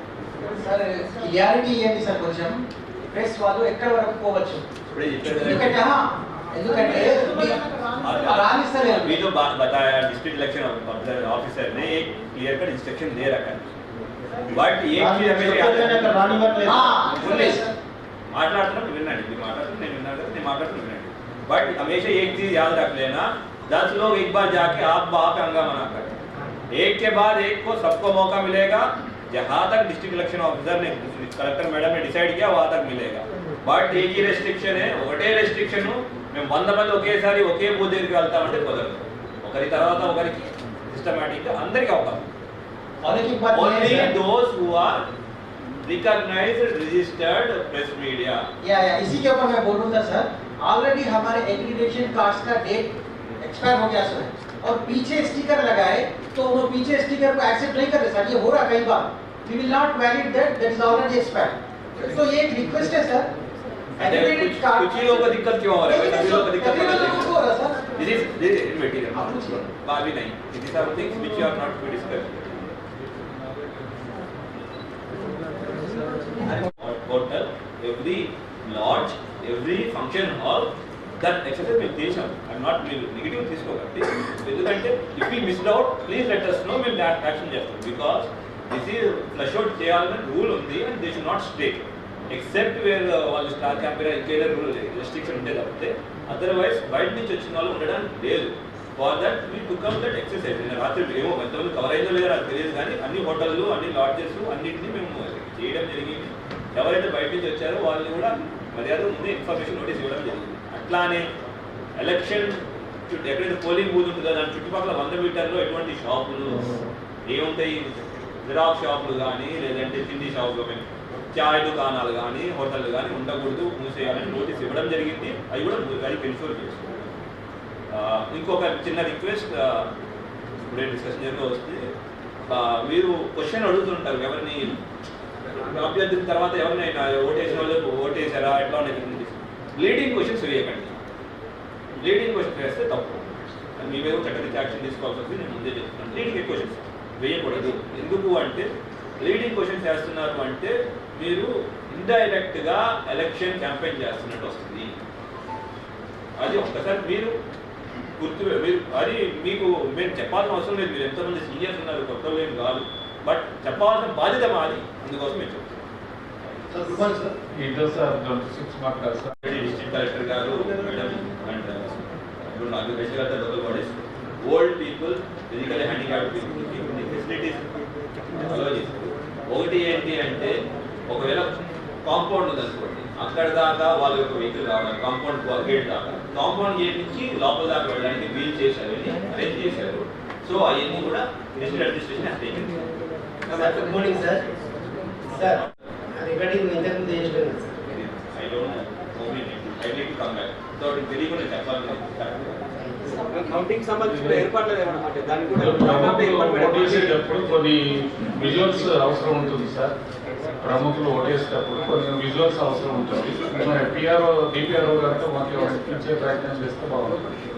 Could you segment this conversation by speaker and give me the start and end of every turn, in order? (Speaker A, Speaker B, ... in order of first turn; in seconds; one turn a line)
Speaker A: 0.4-4.7
Speaker B: 4.9-5.8
Speaker A: 5.3-9.2
Speaker B: 6.8-7.5
Speaker B: 8.0-13.7
Speaker B: 14.5-17.7
Speaker C: 15.1-16.9
Speaker A: 15.4-16.1
Speaker A: 16.6-17.7
Speaker B: 18.3-26.2
Speaker B: 26.7-42.3
Speaker A: 43.0-44.1
Speaker B: 43.1-45.1
Speaker B: 45.8-48.5
Speaker A: 48.6-63.3
Speaker A: 64.0-65.3
Speaker B: 64.0-67.4
Speaker A: 65.9-67.9
Speaker B: 68.0-72.7
Speaker A: 69.2-69.6
Speaker B: 76.5-111.3
Speaker B: 112.0-127.1
Speaker B: 127.9-129.9
Speaker B: 130.6-131.9
Speaker B: 132.5-134.8
Speaker B: 135.6-141.0
Speaker B: 142.0-148.7
Speaker B: 149.2-154.9
Speaker B: 156.4-157.3
Speaker B: 158.2-165.8
Speaker D: 166.8-169.3
Speaker B: 169.4-177.6
Speaker B: 178.4-180.5
Speaker B: 181.1-181.5
Speaker B: 182.0-192.8
Speaker C: 193.6-194.4
Speaker E: 193.6-194.3
Speaker B: 195.4-195.7
Speaker C: 196.1-197.7
Speaker B: 197.9-202.6
Speaker E: 203.3-207.1
Speaker D: 204.1-204.5
Speaker D: 205.5-209.9
Speaker D: 210.6-217.3